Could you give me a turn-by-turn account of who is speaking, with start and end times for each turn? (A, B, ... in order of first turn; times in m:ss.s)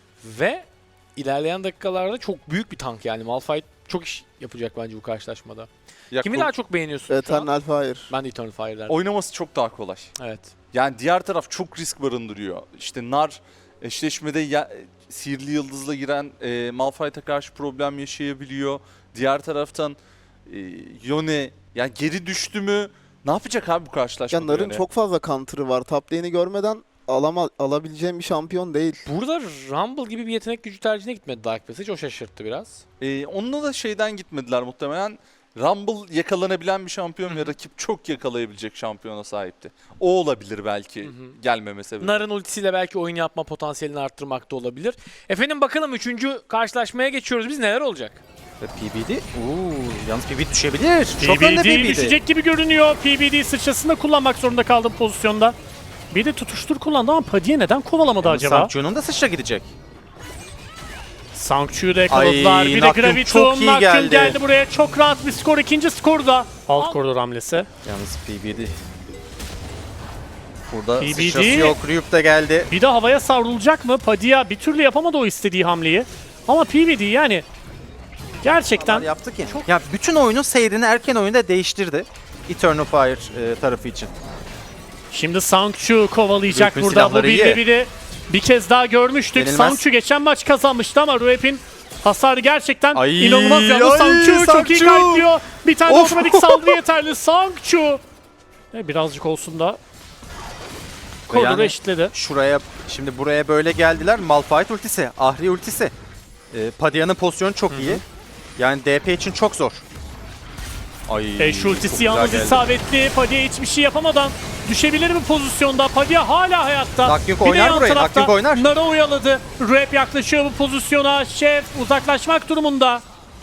0:00.2-0:07.5 A
0:06.1-0:06.5 B
0:07.1-0:08.1 C
0:08.1-0:09.0 A
0:08.9-0:10.1 B
0:10.2-0:10.5 A
0:10.7-0:24.8 B
0:24.3-0:29.0 C
0:29.0-0:32.8 A
0:33.0-0:42.2 B
0:41.0-0:41.4 A
0:42.0-0:48.2 A
0:48.6-0:52.1 D
0:51.2-0:55.6 E
0:56.1-0:58.7 E
0:58.2-0:59.7 D
1:01.3-1:07.7 E
1:02.1-1:04.4 D
1:07.8-1:08.8 D
1:10.7-1:12.7 D
1:11.0-1:11.8 E
1:12.7-1:17.4 E
1:18.4-1:19.7 E
1:18.8-1:24.1 D
1:25.1-1:38.0 E
1:26.5-1:27.6 D
1:29.3-1:29.8 D
1:32.9-1:35.2 D
1:35.9-1:36.8 D
1:38.7-1:39.8 E
1:41.3-1:42.1 E
1:41.3-1:45.9 D
1:46.5-1:48.0 D
1:47.7-1:48.0 E
1:48.6-1:49.8 D
1:51.1-1:52.6 D
1:51.4-2:03.0 E
1:57.0-1:58.7 D